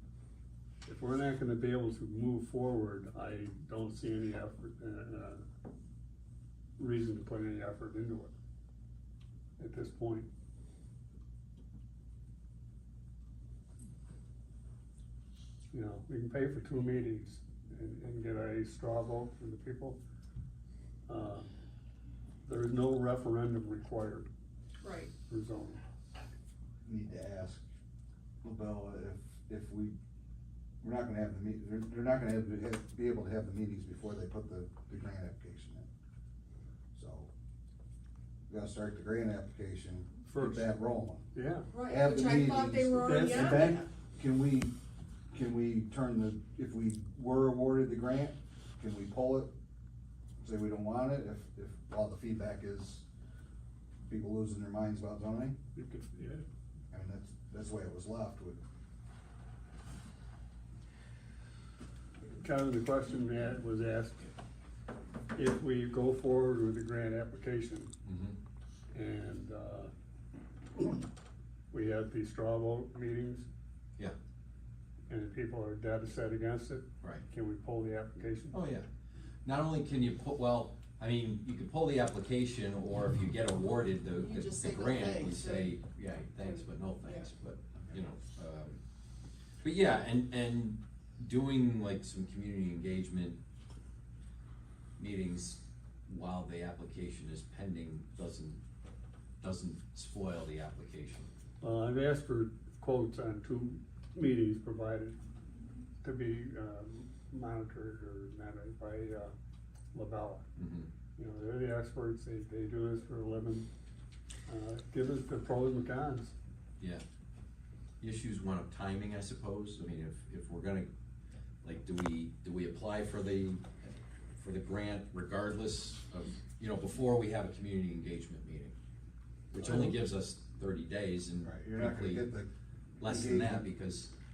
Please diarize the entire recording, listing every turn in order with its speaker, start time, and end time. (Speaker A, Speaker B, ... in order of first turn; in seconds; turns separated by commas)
Speaker A: 0.8-5.4, Speaker A: 6.8-8.3, Speaker A: 9.6-10.3, Speaker A: 15.7-20.0, Speaker A: 21.1-21.5, Speaker A: 22.4-24.3, Speaker B: 24.8-25.1, Speaker A: 25.3-25.8, Speaker C: 26.8-27.6, Speaker C: 28.4-29.9, Speaker C: 30.8-35.9, Speaker C: 36.9-37.3, Speaker C: 38.5-41.3, Speaker A: 40.3-40.7, Speaker A: 41.3-41.7, Speaker B: 41.7-43.8, Speaker C: 41.8-44.7, Speaker A: 43.0-43.7, Speaker C: 45.3-49.5, Speaker C: 50.4-53.0, Speaker C: 54.1-55.6, Speaker A: 55.7-56.5, Speaker C: 56.9-58.6, Speaker A: 62.3-64.3, Speaker A: 65.3-67.9, Speaker D: 68.0-68.4, Speaker A: 68.9-69.9, Speaker A: 71.7-73.5, Speaker A: 75.1-78.6, Speaker D: 78.5-78.9, Speaker D: 79.4-88.8, Speaker B: 84.1-85.8, Speaker B: 86.3-87.3, Speaker C: 87.8-88.0, Speaker D: 89.6-93.4, Speaker D: 95.0-98.6, Speaker D: 99.4-101.3, Speaker A: 101.6-105.2, Speaker A: 106.0-109.3, Speaker A: 109.9-110.5, Speaker D: 110.5-110.9, Speaker A: 111.2-113.7, Speaker A: 114.5-116.3, Speaker D: 118.0-120.9, Speaker D: 121.6-128.8, Speaker D: 129.5-132.3, Speaker A: 129.6-129.9, Speaker C: 131.4-132.5, Speaker D: 133.0-134.1, Speaker C: 133.0-133.7